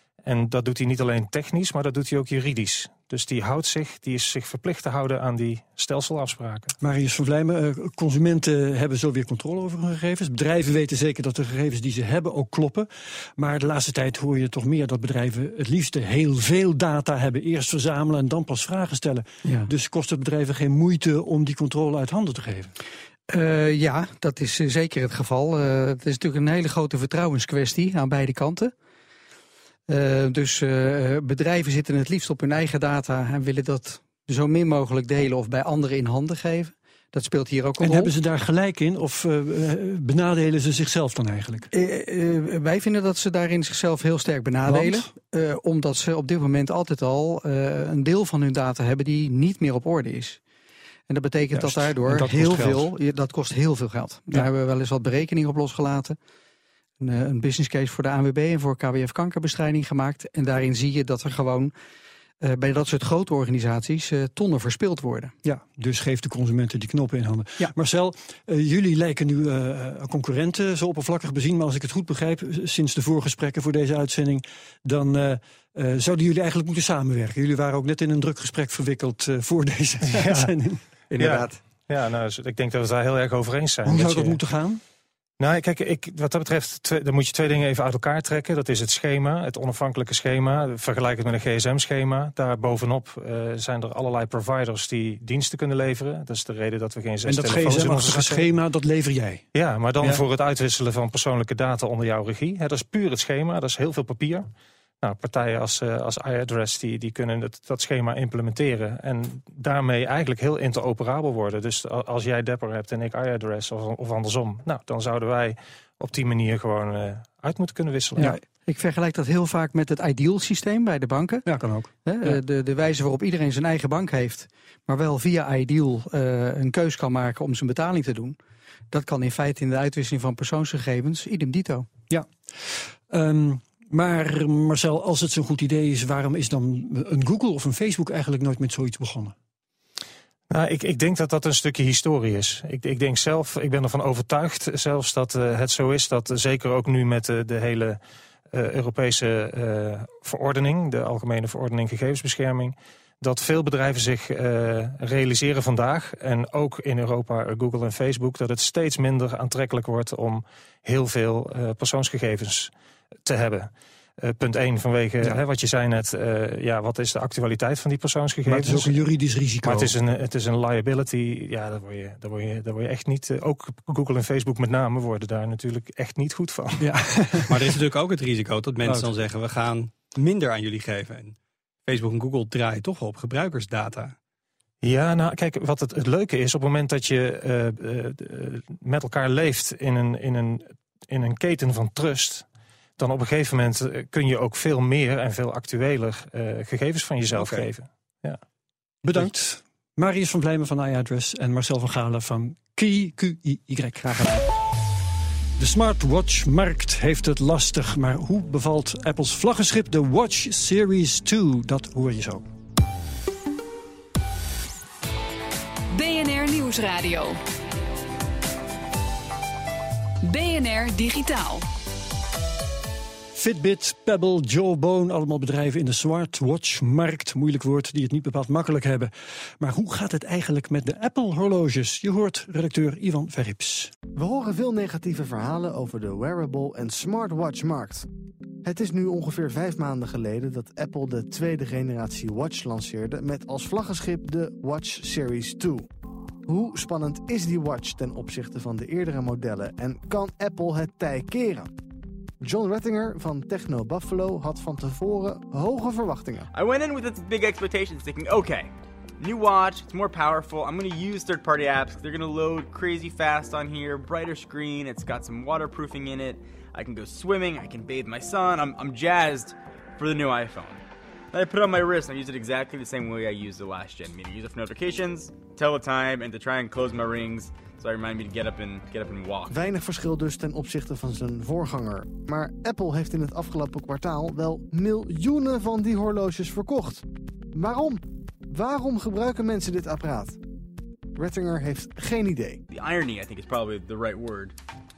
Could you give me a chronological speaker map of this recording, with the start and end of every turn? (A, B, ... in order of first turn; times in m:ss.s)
0:00.2-0:06.8 A
0:06.8-0:22.7 B
0:19.4-0:19.7 C
0:23.3-0:28.7 C
0:29.9-0:38.1 C
0:37.8-0:41.7 B
0:41.7-0:50.4 C
0:44.7-0:45.1 B
0:51.1-0:56.2 C
0:51.5-0:52.9 B
0:57.0-1:01.7 C
1:02.4-1:05.3 C
1:05.4-1:20.8 B
1:20.1-1:20.5 A
1:21.1-1:21.6 C
1:21.2-1:24.4 A
1:23.9-1:24.8 B
1:25.4-1:38.5 A
1:37.3-1:39.4 B
1:39.5-1:44.5 A
1:45.0-1:58.3 A
1:58.2-2:01.5 C
2:01.5-2:02.4 B
2:02.0-2:08.4 C
2:08.9-2:11.9 C
2:12.1-2:19.3 B
2:20.5-2:28.0 A
2:28.5-2:42.7 A
2:43.3-2:49.0 A
2:48.5-2:49.9 B
2:49.6-2:56.9 A
2:56.8-2:57.7 B
2:57.5-3:01.4 D
2:58.8-2:59.1 B
3:01.9-3:04.2 D
3:04.8-3:12.5 A
3:13.0-3:18.4 A
3:17.3-3:17.7 D
3:19.0-3:24.5 B
3:25.6-3:32.5 B
3:35.9-3:37.4 E
3:40.2-3:41.7 E
3:43.4-3:53.9 B
3:54.1-3:58.1 F
3:58.6-4:05.9 F
4:06.5-4:11.7 F
4:12.4-4:16.5 F
4:16.5-4:39.6 G
4:39.5-4:50.4 F
4:51.2-4:52.6 F
4:52.7-4:54.6 G